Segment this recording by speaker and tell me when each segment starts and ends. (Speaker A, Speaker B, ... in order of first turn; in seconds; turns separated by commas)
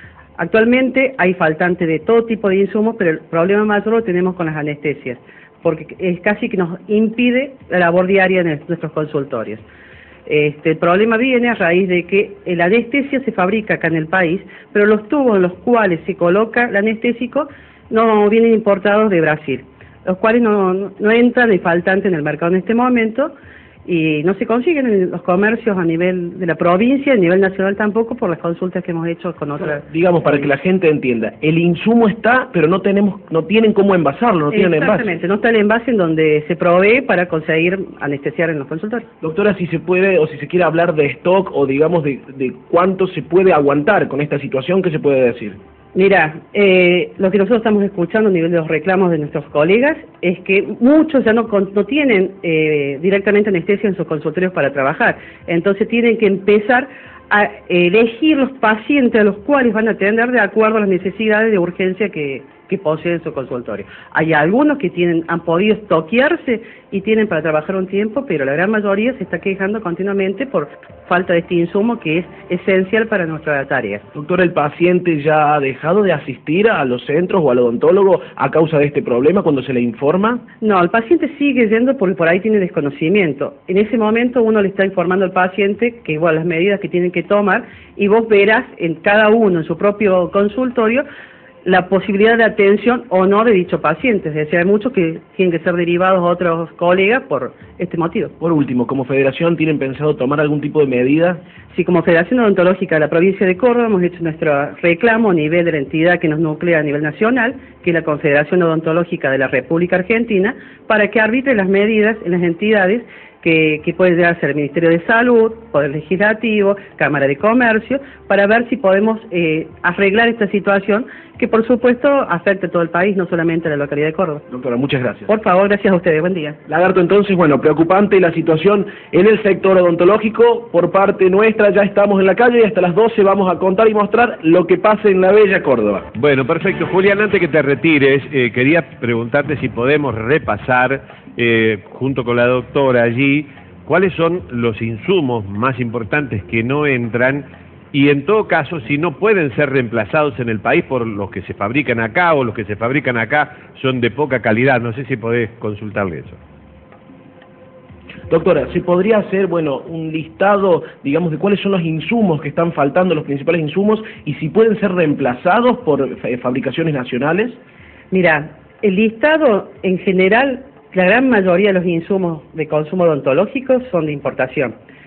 Speaker A: 0.4-9.7, Speaker A: 10.3-23.3, Speaker A: 23.9-29.9, Speaker B: 29.6-35.1, Speaker A: 34.5-39.1, Speaker B: 39.2-45.6, Speaker A: 45.9-74.0, Speaker B: 74.1-80.4, Speaker A: 80.6-91.0, Speaker A: 91.7-98.3, Speaker B: 98.4-101.4, Speaker A: 101.7-124.4, Speaker B: 124.5-125.3, Speaker A: 125.3-126.6, Speaker B: 126.7-136.1, Speaker C: 136.2-156.4, Speaker B: 158.3-167.6, Speaker A: 168.1-174.8